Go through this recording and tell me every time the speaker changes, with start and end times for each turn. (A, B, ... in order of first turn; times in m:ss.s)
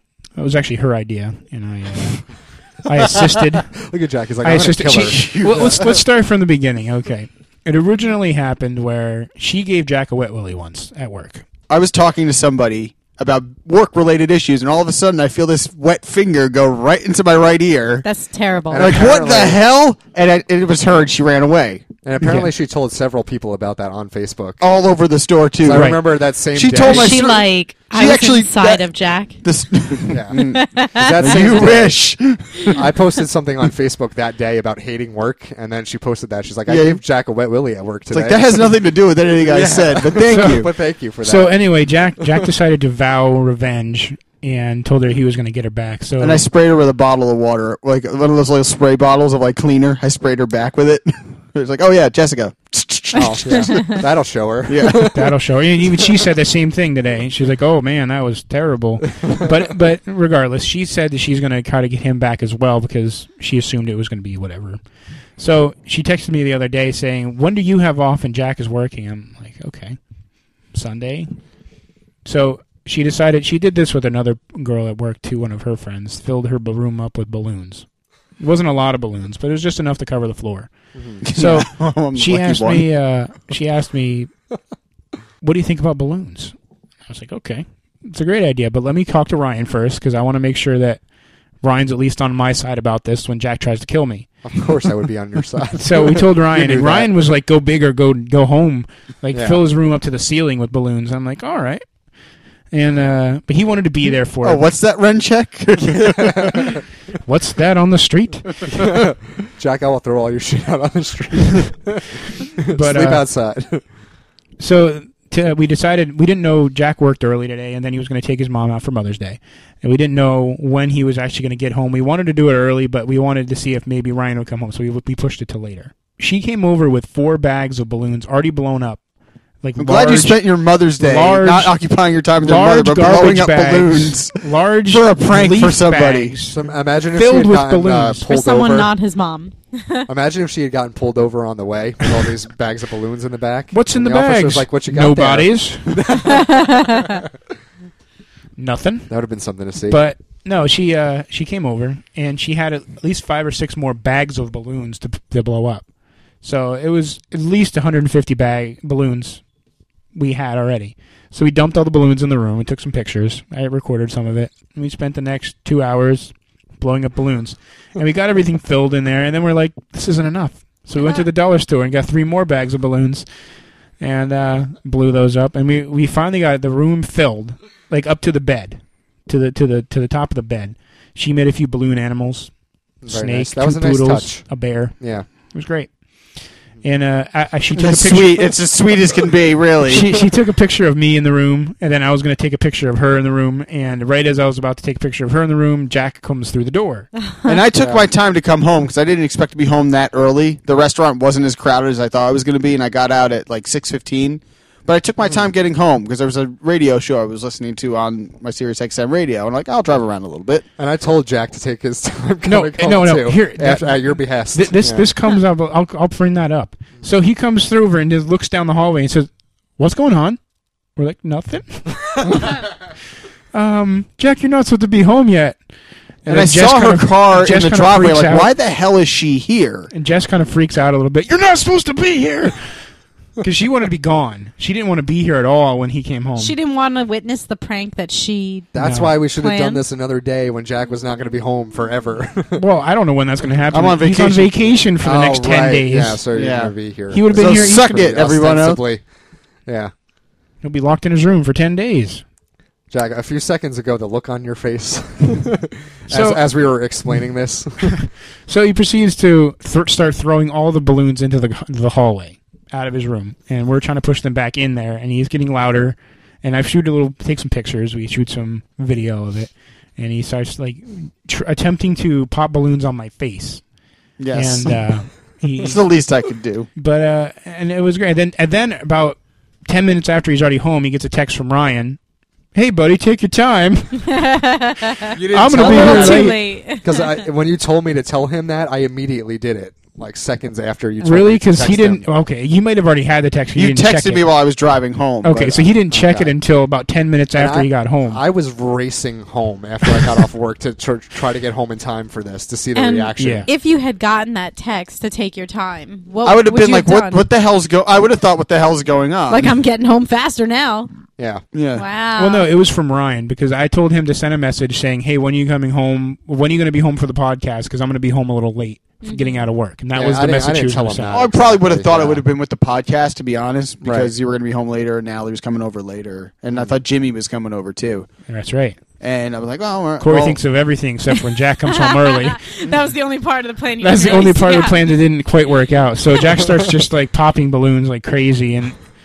0:00.4-0:03.8 A
0:03.0-0:06.0 B
0:04.4-0:11.4 A
0:05.1-0:05.8 C
0:11.7-0:18.0 C
0:18.0-0:18.9 D
0:18.7-0:19.6 B
0:18.7-0:21.8 C
0:22.0-0:24.6 B
0:22.2-0:22.5 A
0:24.6-0:26.0 C
0:25.6-0:27.2 B
0:25.7-0:26.0 A
0:26.5-0:28.8 C
0:26.8-0:29.4 D
0:29.4-0:32.8 C
0:30.1-0:32.0 B
0:30.3-0:31.7 D
0:32.6-0:38.8 B
0:36.7-0:37.0 C
0:38.1-0:40.7 C
0:39.4-0:41.6 B
0:40.3-0:40.6 A
0:41.2-0:46.4 A
0:46.2-0:54.0 C
0:53.1-0:54.0 D
0:53.1-0:55.3 B
0:54.7-0:55.1 C
0:55.1-1:04.8 A
1:05.4-1:10.0 A
1:10.6-1:11.4 A
1:12.2-1:17.9 A
1:18.4-1:20.7 A
1:20.9-1:21.2 B
1:21.2-1:22.9 C
1:21.3-1:24.3 A
1:25.4-1:26.5 A
1:27.1-1:31.0 A
1:31.6-1:34.3 A
1:34.4-1:37.1 B
1:35.8-1:41.8 A
1:39.3-1:39.6 B
1:42.7-1:44.6 A
1:44.4-1:46.8 C
1:46.0-1:46.6 B
1:47.2-1:48.7 A
1:48.7-1:53.8 B
1:52.7-1:53.2 A
1:54.6-2:09.0 A
2:09.6-2:10.4 A
2:09.8-2:16.3 C
2:11.0-2:11.7 A
2:12.4-2:16.6 A
2:16.5-2:18.9 B
2:17.1-2:18.3 A
2:18.2-2:20.1 D
2:20.1-2:27.2 B
2:23.7-2:26.2 A
2:26.2-2:27.2 D
2:28.6-2:29.1 A
2:29.1-2:30.0 B
2:29.9-2:35.8 A
2:36.4-2:39.4 A
2:40.1-2:53.2 A
2:51.0-2:51.3 D
2:54.0-3:02.5 A
3:03.0-3:05.3 B
3:03.0-3:05.9 A
3:06.8-3:08.5 A
3:07.8-3:10.1 C
3:09.9-3:17.1 A
3:17.3-3:17.5 D
3:17.4-3:30.6 C
3:17.8-3:18.1 B
3:30.8-3:35.1 B
3:32.4-3:40.4 A
3:40.9-3:42.6 A
3:43.5-3:45.6 A
3:46.2-3:48.5 A
3:46.3-3:49.9 C
3:49.9-3:52.9 A
3:53.4-3:56.5 A
3:56.4-3:59.8 D
3:58.7-4:02.6 B
3:58.8-3:59.1 A
4:02.6-4:06.2 A
4:03.7-4:04.5 C
4:05.0-4:09.1 B
4:06.3-4:06.8 C
4:07.1-4:08.0 A
4:07.3-4:08.8 C
4:09.6-4:09.9 B
4:10.6-4:12.2 A
4:12.9-4:18.0 B
4:16.1-4:16.4 A
4:18.0-4:33.6 A
4:34.2-4:34.9 C
4:34.3-4:35.8 A
4:35.6-4:36.7 C
4:36.8-4:42.0 A
4:42.5-4:44.1 A
4:44.0-4:47.2 D
4:45.1-4:52.0 B
4:45.3-4:46.4 A
4:51.0-4:54.2 A
4:53.6-4:55.7 C
4:55.2-4:58.2 A
4:55.9-4:56.3 B
4:57.3-5:03.5 B
5:02.7-5:07.2 D
5:03.2-5:03.5 A
5:06.2-5:09.5 C
5:09.3-5:10.9 D
5:11.2-5:11.4 B
5:11.5-5:11.8 C
5:11.7-5:12.5 D
5:12.2-5:21.2 A
5:19.0-5:19.4 D
5:19.9-5:22.2 B
5:21.1-5:28.1 C
5:23.8-5:24.1 B
5:28.3-5:28.8 A
5:29.0-5:30.4 C
5:30.0-5:32.4 A
5:31.6-5:34.9 D
5:33.8-5:38.8 A